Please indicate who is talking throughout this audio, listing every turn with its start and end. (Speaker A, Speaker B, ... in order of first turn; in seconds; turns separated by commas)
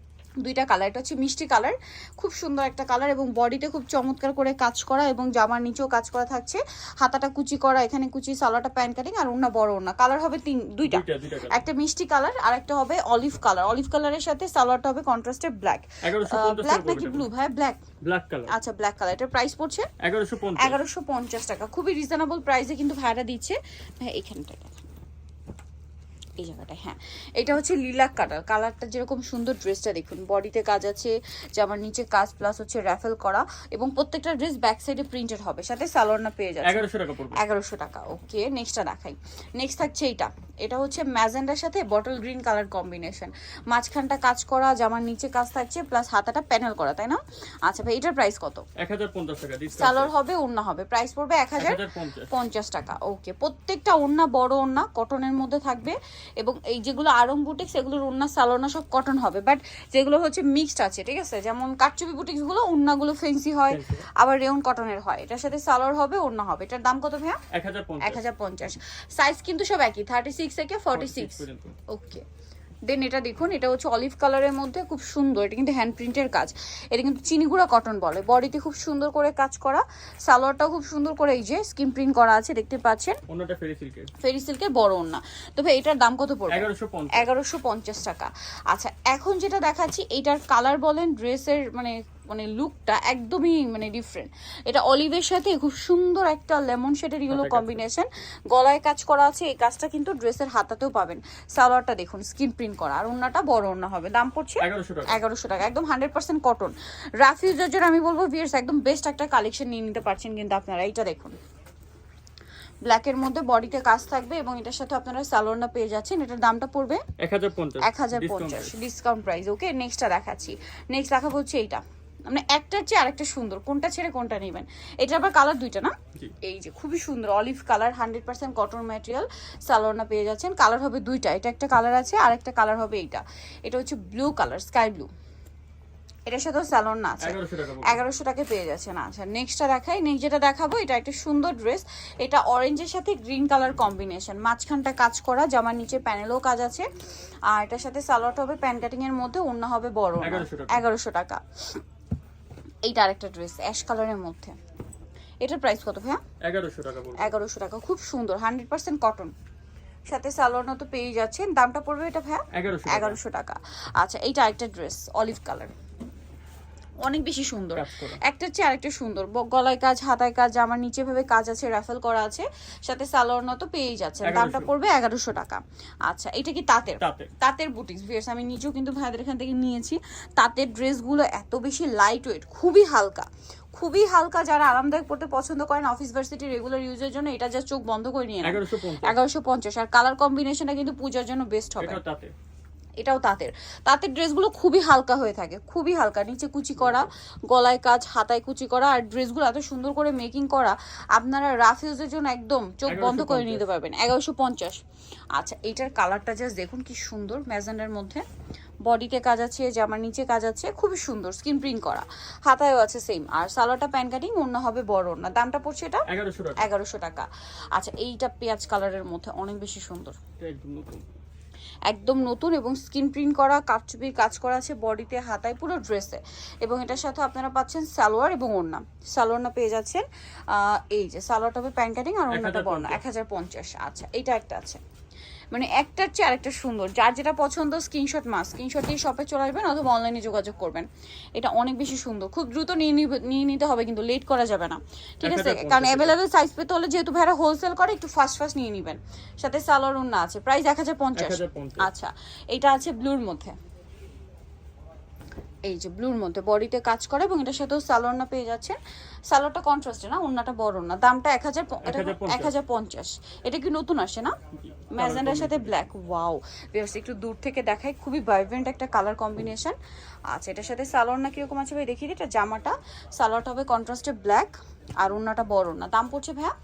Speaker A: 0.4-17.8, Speaker B: 10.8-11.6, Speaker B: 16.0-17.3, Speaker B: 18.0-18.5, Speaker A: 18.5-19.9, Speaker B: 20.0-20.8, Speaker A: 20.6-24.8, Speaker A: 26.4-48.6, Speaker B: 36.6-37.4, Speaker B: 48.8-50.1, Speaker A: 49.8-67.4, Speaker B: 51.6-52.3, Speaker B: 63.7-64.1, Speaker B: 67.5-68.2, Speaker A: 68.0-72.2, Speaker B: 70.9-71.8, Speaker A: 72.9-83.2, Speaker B: 83.3-84.1, Speaker A: 84.2-111.4, Speaker B: 86.5-87.3, Speaker B: 97.3-97.8, Speaker B: 104.6-105.2, Speaker A: 112.8-117.0, Speaker B: 117.2-118.8, Speaker A: 117.8-135.1, Speaker A: 136.3-146.9, Speaker B: 137.2-138.0, Speaker A: 147.5-151.4, Speaker B: 150.2-150.8, Speaker A: 152.8-154.6, Speaker A: 155.4-156.2, Speaker B: 156.4-157.3, Speaker A: 157.2-159.3, Speaker A: 160.1-165.7, Speaker B: 162.5-163.2, Speaker A: 167.0-192.0, Speaker B: 167.8-168.2, Speaker B: 174.2-174.7, Speaker B: 177.0-177.3, Speaker B: 188.4-189.2, Speaker B: 191.8-192.3, Speaker A: 193.0-204.8, Speaker B: 196.8-197.1, Speaker B: 202.9-203.7, Speaker A: 205.3-208.2, Speaker A: 208.8-216.1, Speaker B: 216.1-216.7, Speaker A: 216.6-220.2, Speaker B: 220.4-221.1, Speaker A: 221.9-234.8, Speaker B: 232.3-233.0, Speaker A: 235.5-253.6, Speaker B: 245.2-246.2, Speaker B: 251.2-251.9, Speaker A: 255.7-258.8, Speaker A: 259.3-264.3, Speaker B: 261.9-262.6, Speaker B: 264.5-265.8, Speaker A: 264.9-269.8, Speaker A: 270.3-276.5